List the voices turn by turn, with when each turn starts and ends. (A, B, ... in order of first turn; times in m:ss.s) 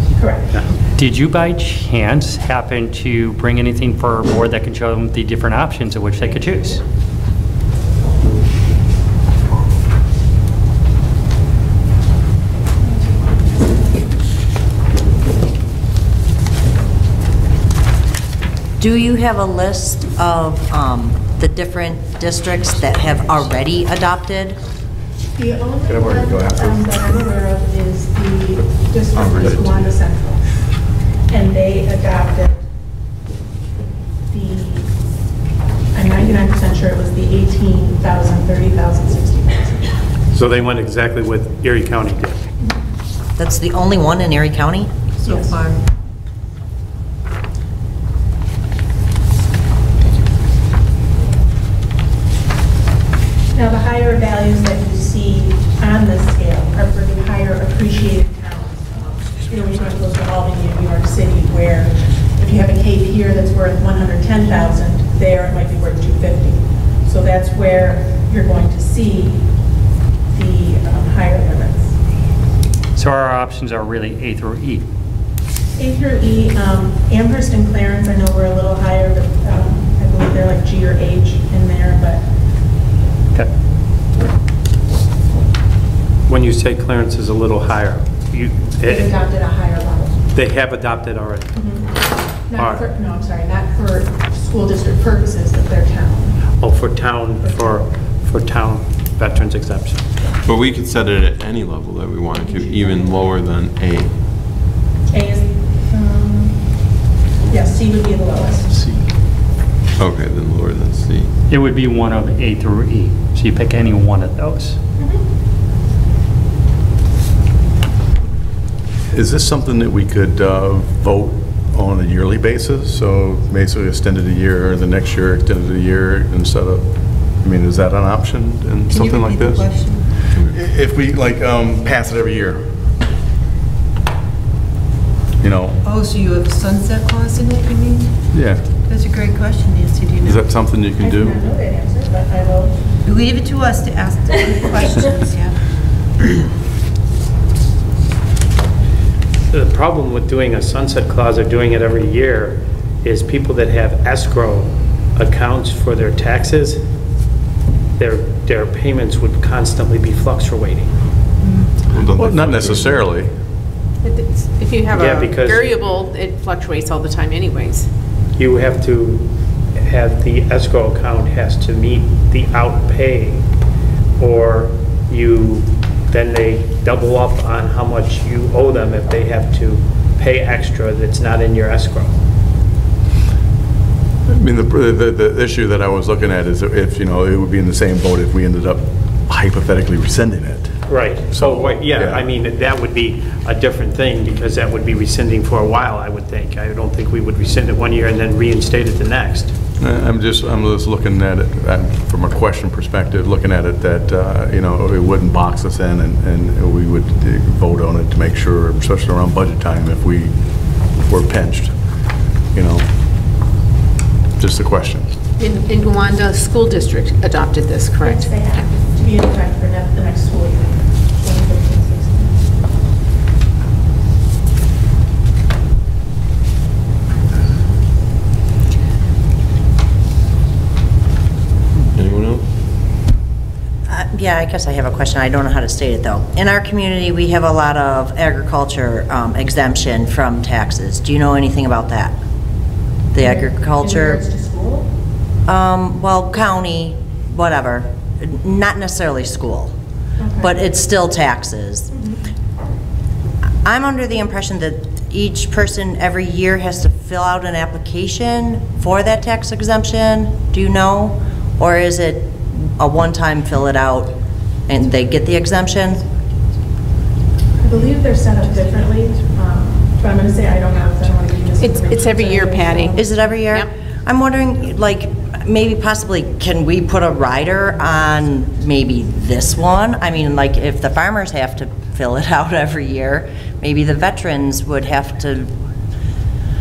0:00.2-0:00.6 A
0:01.0-0:06.8 B
0:18.8-0:24.6 C
0:25.4-0:30.4 A
0:25.8-0:26.9 D
0:31.3-0:32.6 A
0:34.3-0:34.9 A
0:35.9-0:39.9 A
0:40.3-0:42.4 E
0:43.4-0:45.7 C
0:45.3-0:45.5 F
0:53.5-1:09.4 A
1:10.3-1:12.0 A
1:13.0-1:14.8 B
1:15.8-1:22.2 A
1:26.3-1:29.1 E
1:28.8-1:30.2 A
1:30.3-1:31.5 E
1:31.5-1:36.4 A
1:32.6-1:32.8 E
1:36.6-1:40.0 E
1:37.4-1:37.8 A
1:40.4-1:44.1 G
1:42.6-1:43.0 A
1:45.1-1:46.6 A
1:47.4-1:48.9 A
1:50.0-1:51.3 G
1:51.5-1:54.8 B
1:59.1-2:09.7 D
2:08.9-2:10.0 F
2:10.4-2:12.7 D
2:15.4-2:15.8 D
2:15.8-2:18.1 F
2:18.3-2:18.6 D
2:18.9-2:20.5 F
2:20.2-2:21.4 D
2:21.0-2:22.8 A
2:23.0-2:25.5 F
2:29.5-2:36.8 E
2:38.0-2:40.9 E
2:41.9-2:42.9 G
2:41.9-2:43.3 D
2:44.0-2:47.9 H
2:44.9-2:45.7 E
2:48.4-2:49.3 E
2:49.8-2:53.4 E
2:54.2-3:02.1 E
3:04.3-3:10.7 D
3:10.9-3:19.5 E
3:11.3-3:12.2 D
3:19.8-3:30.3 D
3:30.8-3:31.7 D
3:32.5-3:32.8 D
3:34.4-3:35.1 D
3:35.4-3:38.3 H
3:38.0-3:42.4 A
3:51.9-3:52.4 G
3:53.9-4:02.2 C
4:03.1-4:04.2 C
4:03.2-4:04.9 A
4:05.5-4:09.7 C
4:10.2-4:10.5 A
4:10.4-4:11.9 C
4:11.9-4:12.2 A
4:13.6-4:24.1 C
4:24.7-4:26.0 C
4:27.6-4:33.0 A
4:31.6-4:33.7 H
4:32.9-4:45.5 C